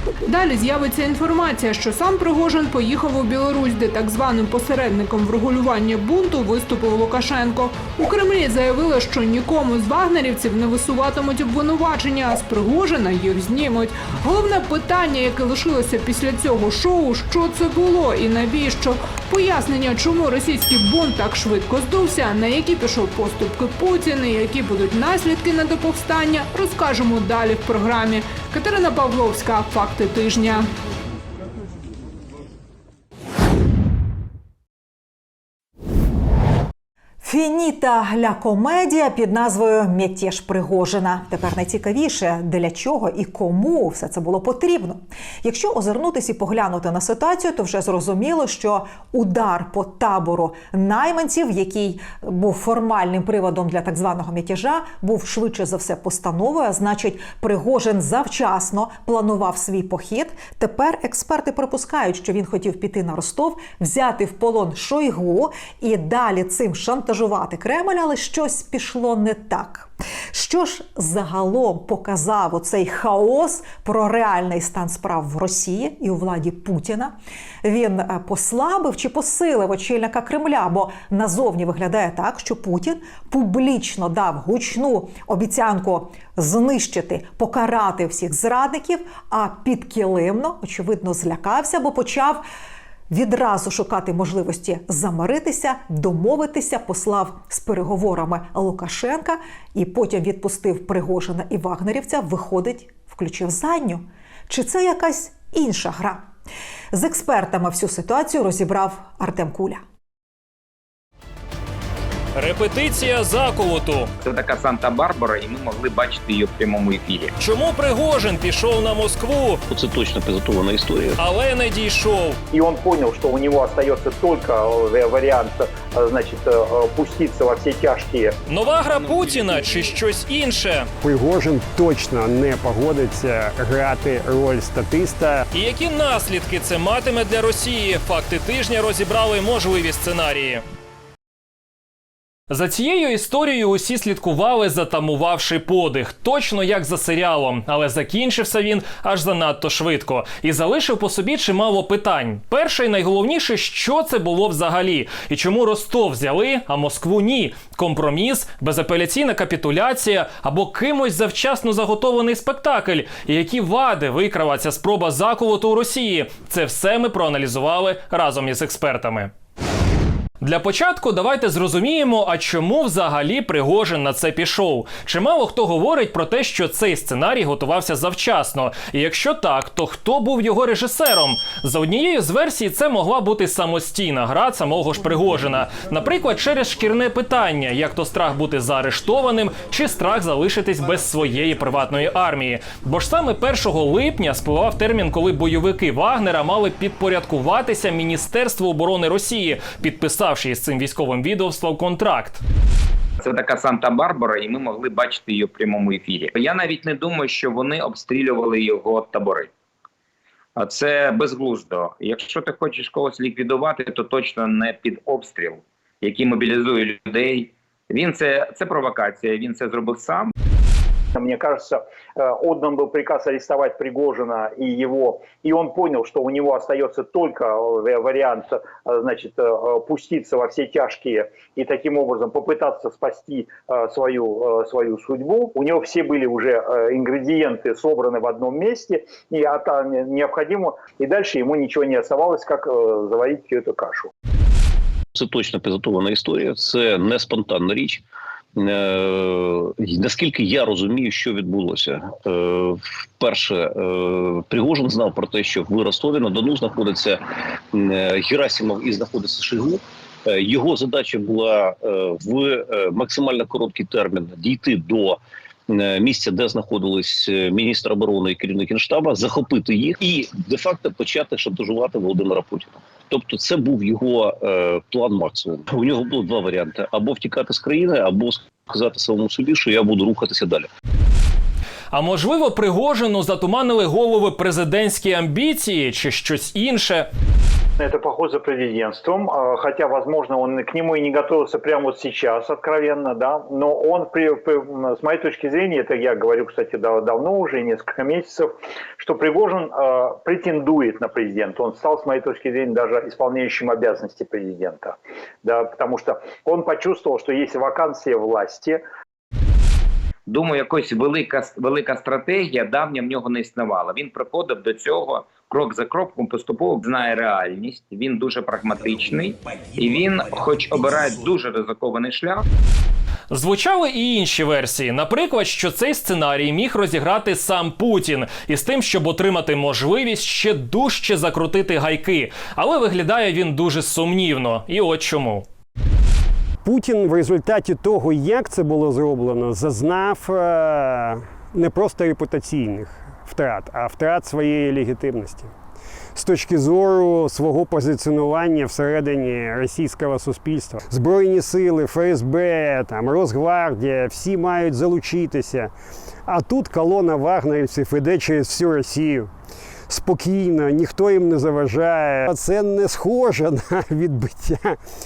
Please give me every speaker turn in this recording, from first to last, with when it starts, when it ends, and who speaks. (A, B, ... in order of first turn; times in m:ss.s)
0:00.2-0:30.7 A
0:37.2-1:32.4 B
1:33.1-1:46.3 B
1:46.9-1:49.8 B
1:52.3-1:54.1 C
1:54.2-1:57.3 D
1:57.4-1:59.6 C
1:59.7-2:01.2 E
2:01.2-2:02.4 C
2:02.5-2:08.4 F
2:08.5-2:10.9 C
2:11.0-2:15.5 G
2:15.5-2:20.6 C
2:22.5-2:49.3 C
2:50.4-3:22.4 C
3:23.2-3:29.5 D
3:30.6-3:40.3 D
3:41.1-4:04.1 F
4:05.1-4:08.0 E
4:08.6-4:17.2 E
4:17.7-4:40.7 E
4:41.9-4:47.1 C
4:47.8-5:08.8 F
5:10.3-5:22.4 D
5:23.3-5:35.4 C
5:36.6-5:45.5 G
5:46.1-5:55.7 G
5:56.2-5:59.3 G
5:59.9-6:04.8 G